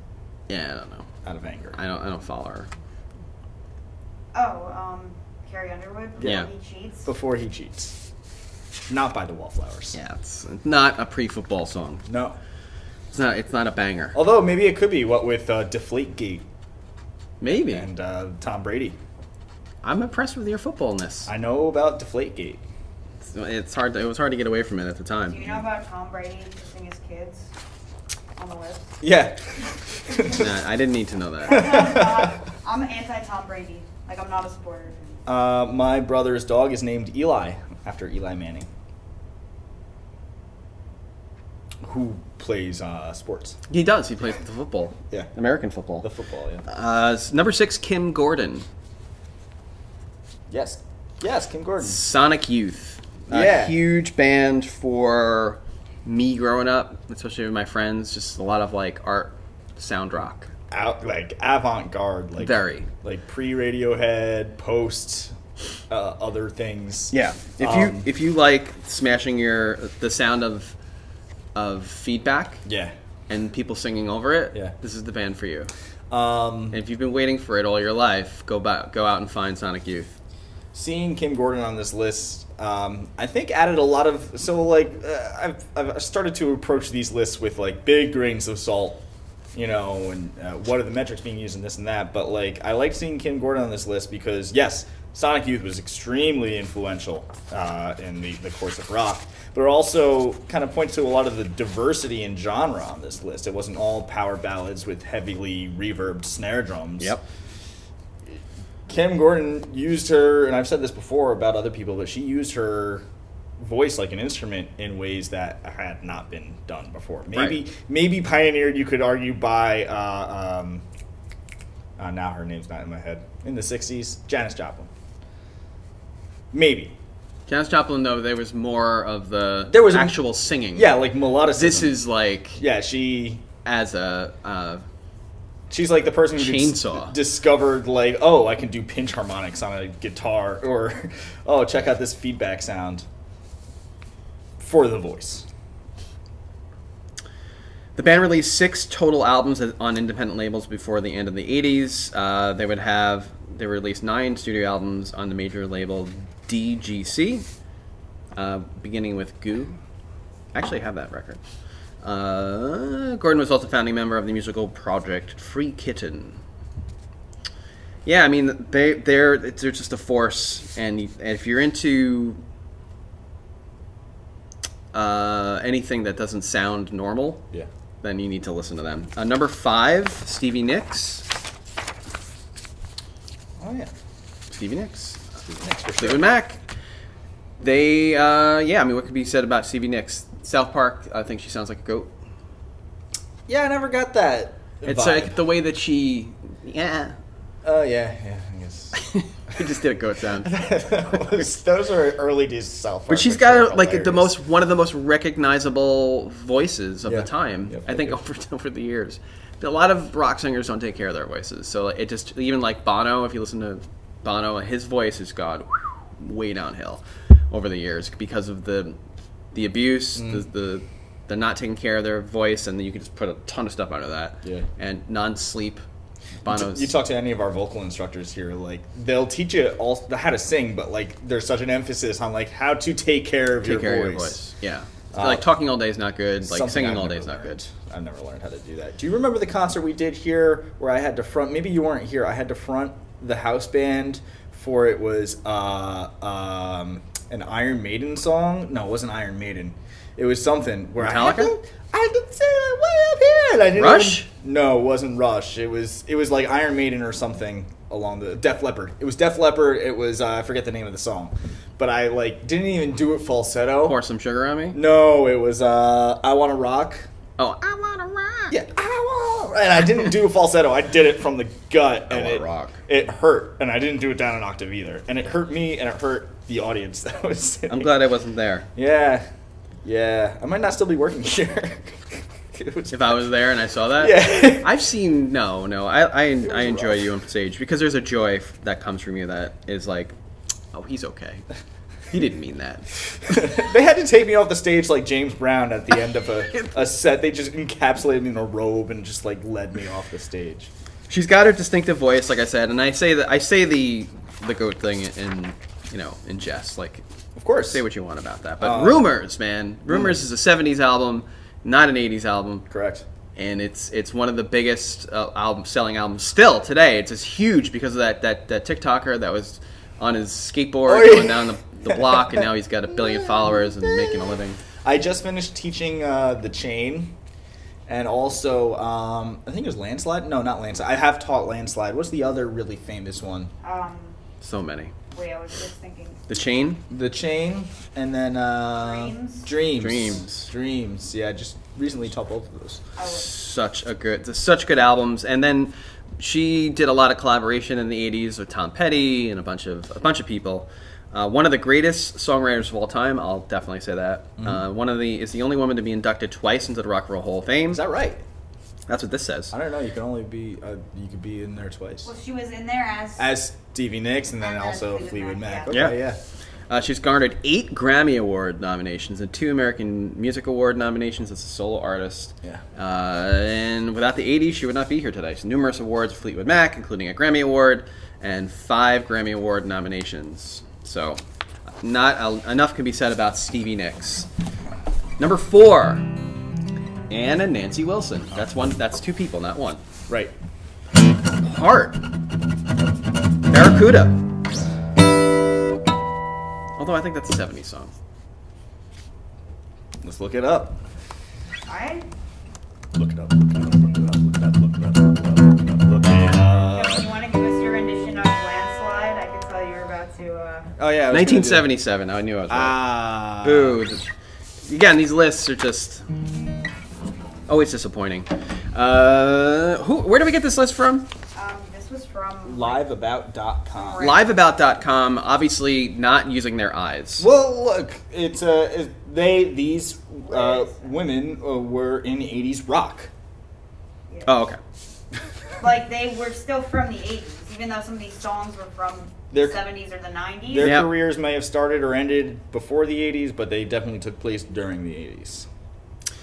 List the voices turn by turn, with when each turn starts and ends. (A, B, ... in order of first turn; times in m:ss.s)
0:00.5-0:01.1 A
0:01.2-0:01.8 B
0:01.7-0:02.7 A
0:04.3-0:07.1 C
0:06.2-0:06.5 B
0:06.2-0:06.5 A
0:07.0-0:07.9 B
0:08.9-0:10.0 B
0:09.9-0:12.1 A
0:12.1-0:12.4 B
0:13.1-0:14.2 A
0:14.1-0:16.4 B
0:17.4-0:17.9 A
0:17.5-0:19.0 B
0:19.8-0:21.3 A
0:21.3-0:22.6 B
0:23.2-0:25.4 A
0:25.3-0:27.5 C
0:28.4-0:29.0 C
0:29.0-0:30.4 B
0:30.3-0:31.8 A
0:31.4-0:35.2 C
0:31.5-0:32.3 B
0:35.2-0:38.7 B
0:41.8-0:43.6 B
0:43.7-0:46.1 A
0:46.0-0:46.6 B
0:46.6-0:48.6 A
0:50.5-0:52.0 B
0:51.8-1:00.5 A
0:53.3-0:53.8 B
1:00.7-1:05.3 B
1:02.4-1:02.9 A
1:05.9-1:08.1 B
1:07.1-1:10.7 A
1:11.5-1:12.6 A
1:12.6-1:12.9 B
1:13.3-1:15.7 A
1:16.1-1:16.8 B
1:16.7-1:20.1 A
1:20.7-1:29.0 B
1:29.5-1:47.2 B
1:47.0-1:47.2 A
1:48.9-1:53.0 B
1:53.6-2:00.8 B
1:57.3-1:57.6 A
2:02.0-2:04.9 B
2:06.5-2:07.0 B
2:07.5-2:11.0 A
2:09.7-2:10.2 B
2:10.7-2:12.0 B
2:11.5-2:12.6 A
2:12.6-2:13.4 B
2:13.6-2:14.8 A
2:15.7-2:23.0 B
2:16.3-2:17.2 A
2:24.6-2:25.4 B
2:28.0-2:37.4 A
2:38.3-2:39.8 A
2:40.5-2:41.4 A
2:42.0-2:46.4 A
2:48.0-2:52.4 A
2:54.9-2:57.4 A
2:58.0-3:01.2 A
3:03.6-3:03.9 B
3:04.5-3:05.4 A
3:05.4-3:06.3 B
3:06.0-3:06.6 A
3:07.6-3:12.1 A
3:13.5-3:15.4 B
3:14.8-3:17.2 A
3:17.6-3:19.0 B
3:18.9-3:20.6 A
3:20.4-3:24.4 B
3:23.1-3:39.0 A
3:27.0-3:28.1 B
3:39.5-3:45.8 A
3:40.2-3:40.4 B
3:46.4-3:46.9 A
3:46.4-3:54.4 B
3:53.6-3:57.6 A
3:55.1-3:55.5 B
3:56.4-4:24.0 B
4:11.0-4:11.5 A
4:13.7-4:14.3 A
4:23.8-4:24.8 A
4:24.7-4:27.1 B
4:27.4-4:28.5 A
4:28.5-4:37.9 B
4:32.1-4:32.8 A
4:37.7-4:38.7 A
4:38.7-4:39.3 B
4:39.8-4:43.2 B
4:42.9-4:50.1 A
4:44.0-4:44.7 B
4:46.4-4:47.1 B
4:50.7-4:51.4 A
4:52.1-4:52.9 A
4:53.2-5:00.7 B
5:01.1-5:07.0 A
5:07.4-5:07.8 B
5:07.6-5:12.6 A
5:08.6-5:09.1 B
5:09.9-5:10.2 B
5:12.7-5:13.0 B
5:13.4-5:24.6 A
5:20.9-5:22.4 B
5:24.8-5:27.1 B
5:27.9-5:33.5 B
5:33.6-5:34.2 C
5:34.4-5:34.9 A
5:35.1-5:36.3 C
5:36.3-5:36.8 A
5:36.9-5:42.8 B
5:38.8-5:39.5 C
5:39.8-5:40.5 A
5:43.0-5:43.3 C
5:43.0-5:57.8 A
5:57.7-5:58.2 B
5:58.9-5:59.5 A
5:59.5-6:02.1 B
6:02.0-6:03.3 C
6:03.2-6:06.2 B
6:04.4-6:05.7 C
6:05.7-6:06.0 A
6:06.7-6:21.2 A
6:21.8-6:24.3 A
6:25.2-6:26.1 A
6:27.1-6:29.8 A
6:30.1-6:30.3 B
6:31.4-6:32.0 A
6:33.5-6:34.2 A
6:36.8-6:37.9 A
6:40.0-6:40.8 B
6:41.7-6:42.1 C
6:42.9-6:47.1 B
6:43.6-6:44.0 C
6:46.7-6:50.7 C
6:50.8-6:51.7 B
6:51.1-6:52.8 A
6:52.5-6:53.8 B
6:53.4-6:54.1 A
6:54.6-6:56.0 A
6:57.5-7:01.1 A
7:01.3-7:02.8 C
7:02.4-7:04.1 B
7:03.7-7:04.4 C
7:04.0-7:07.3 A
7:07.2-7:13.1 B
7:10.2-7:10.9 C
7:14.2-7:14.6 A
7:15.6-7:20.8 C
7:19.3-7:19.6 B
7:20.5-7:25.5 B
7:20.6-7:20.9 A